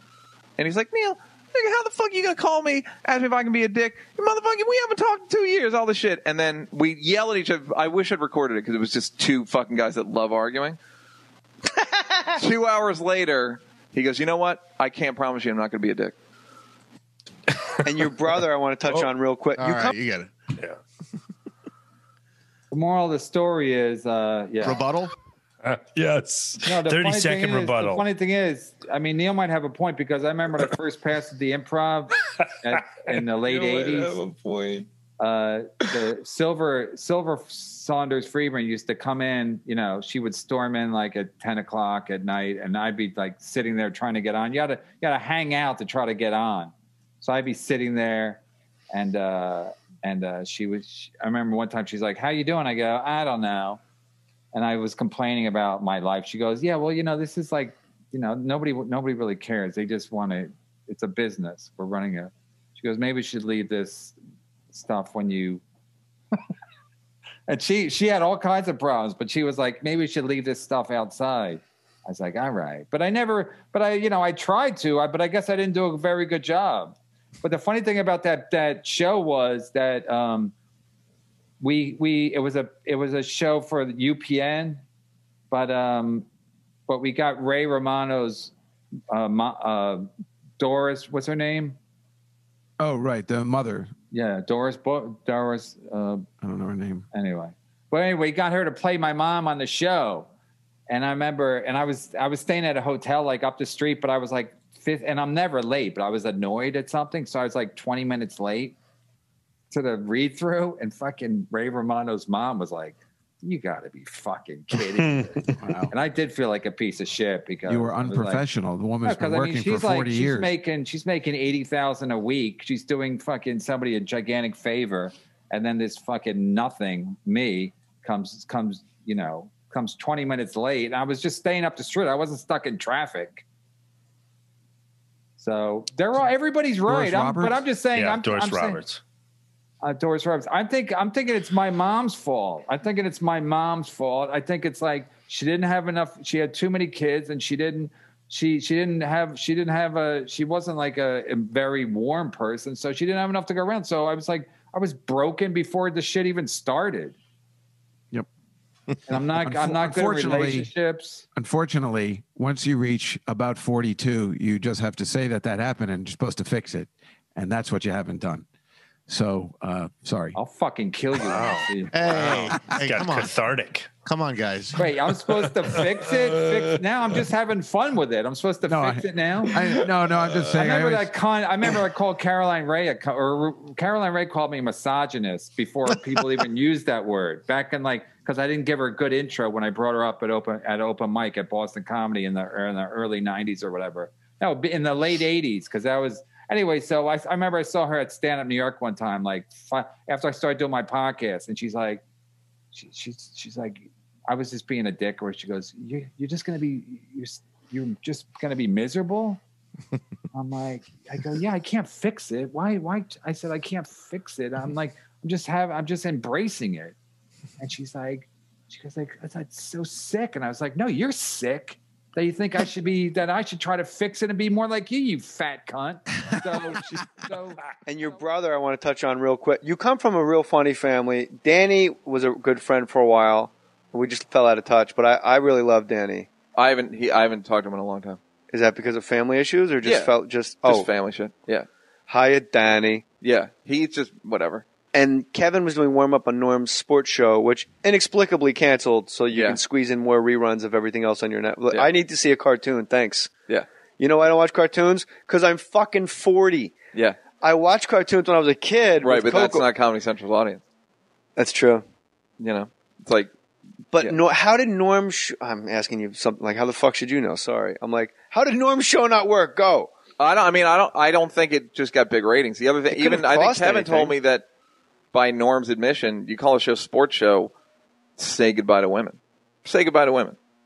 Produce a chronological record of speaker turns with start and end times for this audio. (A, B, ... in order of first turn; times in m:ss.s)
0:00.6-0:10.8 A
0:11.7-0:12.4 B
0:12.3-0:16.1 A
0:17.5-0:18.0 C
0:17.8-0:19.9 B
0:19.6-0:20.3 D
0:22.7-0:24.8 E
0:24.6-0:25.1 D
0:25.6-0:28.0 C
0:26.6-0:34.2 E
0:33.5-0:34.8 C
0:35.2-0:48.4 E
0:48.9-0:53.8 E
0:54.5-1:04.1 E
1:04.7-1:05.6 E
1:07.5-1:20.5 E
1:21.6-1:24.8 E
1:25.5-1:26.2 E
1:26.9-1:28.5 E
1:29.1-1:31.8 E
1:32.8-1:33.9 F
1:34.1-1:36.2 E
1:36.4-1:37.0 F
1:37.1-1:40.3 E
1:40.9-1:48.8 E
1:49.7-1:58.4 E
1:55.0-1:55.5 C
1:55.6-1:55.9 F
1:57.7-2:00.5 F
1:59.0-2:13.4 E
2:15.4-2:18.8 E
2:16.9-2:17.6 F
2:17.9-2:19.0 C
2:19.8-2:37.2 E
2:39.1-2:41.2 E
2:39.1-2:40.7 F
2:41.3-2:48.4 F
2:49.1-2:50.4 F
2:50.3-2:51.9 E
2:51.1-2:53.9 C
2:51.9-2:53.4 D
2:54.0-2:54.8 D
2:54.8-2:59.8 E
2:55.4-2:56.6 C
2:58.6-3:01.1 F
3:00.5-3:22.0 E
3:22.7-3:29.4 E
3:30.3-3:37.0 E
3:37.6-3:47.6 E
3:47.8-3:56.3 B
3:56.6-3:58.2 A
3:58.5-4:00.9 B
3:59.8-4:00.1 A
4:00.6-4:01.7 A
4:02.1-4:03.0 B
4:03.2-4:04.6 A
4:04.9-4:13.3 B
4:09.3-4:09.6 A
4:14.0-4:16.8 B
4:16.9-4:17.2 A
4:17.3-4:19.6 B
4:19.0-4:20.6 A
4:21.4-4:21.8 B
4:22.4-4:23.3 A
4:23.9-4:29.9 B
4:30.2-4:34.4 A
4:32.9-4:34.2 B
4:35.1-4:37.5 A
4:38.2-4:40.4 A